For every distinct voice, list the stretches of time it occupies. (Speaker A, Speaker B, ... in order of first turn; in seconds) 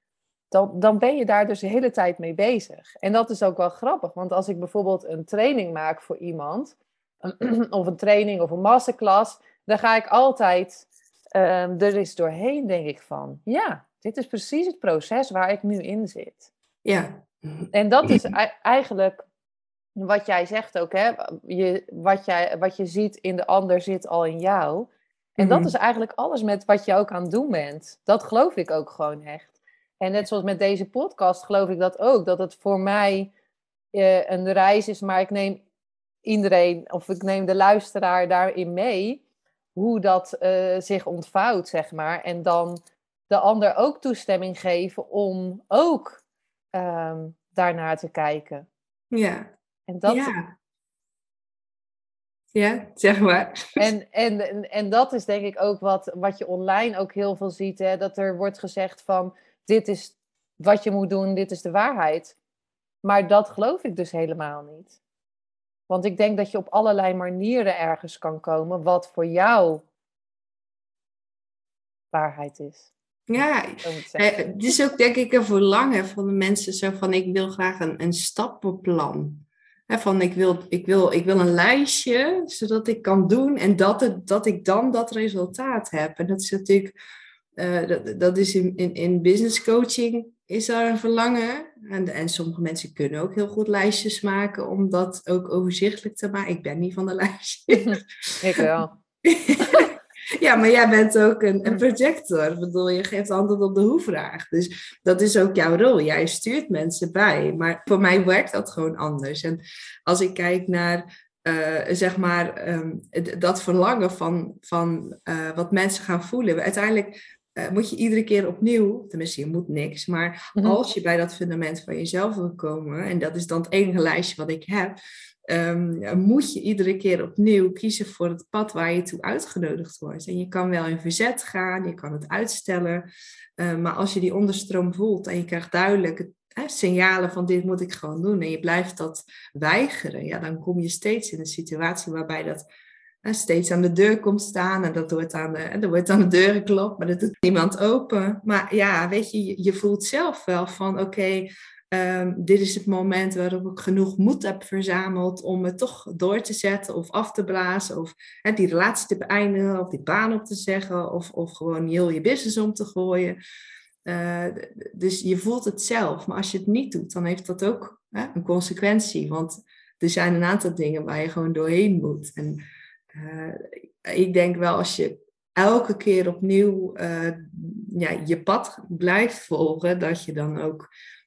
Speaker A: 0.5-16.5, 17.7-19.2, 19.9-33.3, 33.9-35.6, 36.2-39.2, 39.8-46.2, 46.7-48.7, 49.9-50.3, 53.8-62.4, 63.0-64.9, 65.9-69.8, 72.1-72.9, 73.8-74.2, 97.8-98.9
Speaker B: 16.8-18.2, 25.4-25.7, 49.1-49.5, 50.0-50.5, 52.5-53.8, 73.3-86.9, 87.6-98.7, 99.2-125.0, 125.5-142.6, 143.2-163.4, 164.1-180.9